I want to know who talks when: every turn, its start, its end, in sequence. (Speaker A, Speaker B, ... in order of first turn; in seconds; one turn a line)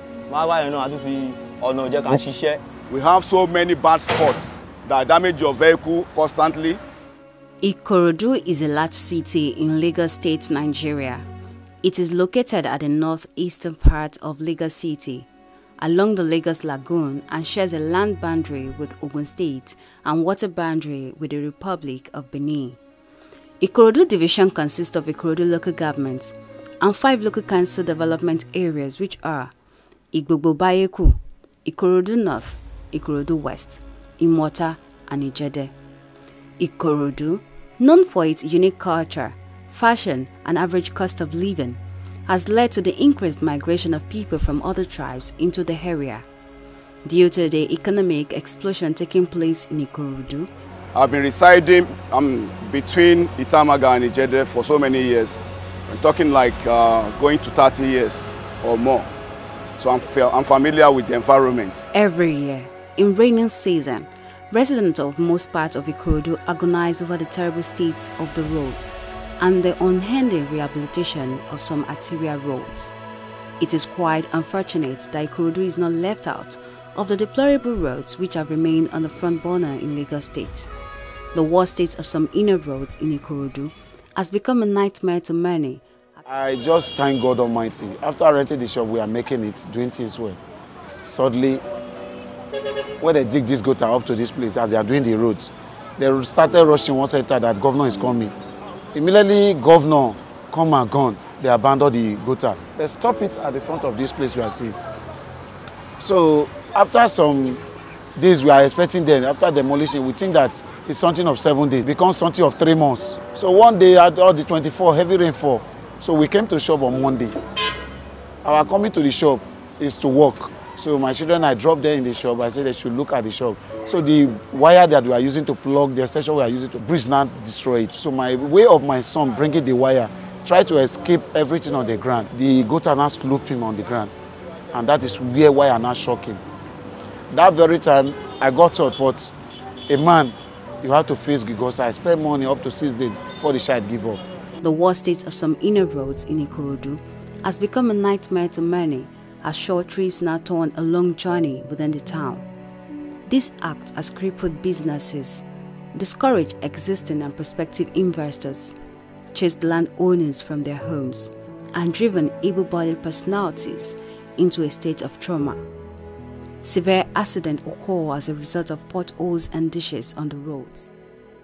Speaker A: 0.3-2.6
Speaker B: 2.9-6.8
Speaker C: 7.6-11.2
Speaker C: 11.8-15.3
Speaker C: 15.8-22.8
Speaker C: 23.6-29.5
Speaker C: 30.1-35.7
Speaker C: 36.6-46.2
Speaker C: 47.0-50.5
Speaker B: 51.0-59.1
Speaker B: 59.8-61.8
Speaker C: 61.9-72.9
Speaker C: 73.6-80.7
Speaker C: 81.3-85.8
Speaker D: 86.3-90.4
Speaker D: 91.0-91.6
Speaker D: 93.0-98.3
Speaker D: 98.9-104.8
Speaker D: 106.0-107.6
Speaker D: 108.2-117.3
Speaker D: 118.4-134.1
Speaker D: 134.7-136.4
Speaker D: 137.3-139.3
Speaker D: 139.9-144.2
Speaker C: 144.6-152.4
Speaker C: 153.3-158.8
Speaker C: 159.3-165.6
Speaker C: 166.6-170.9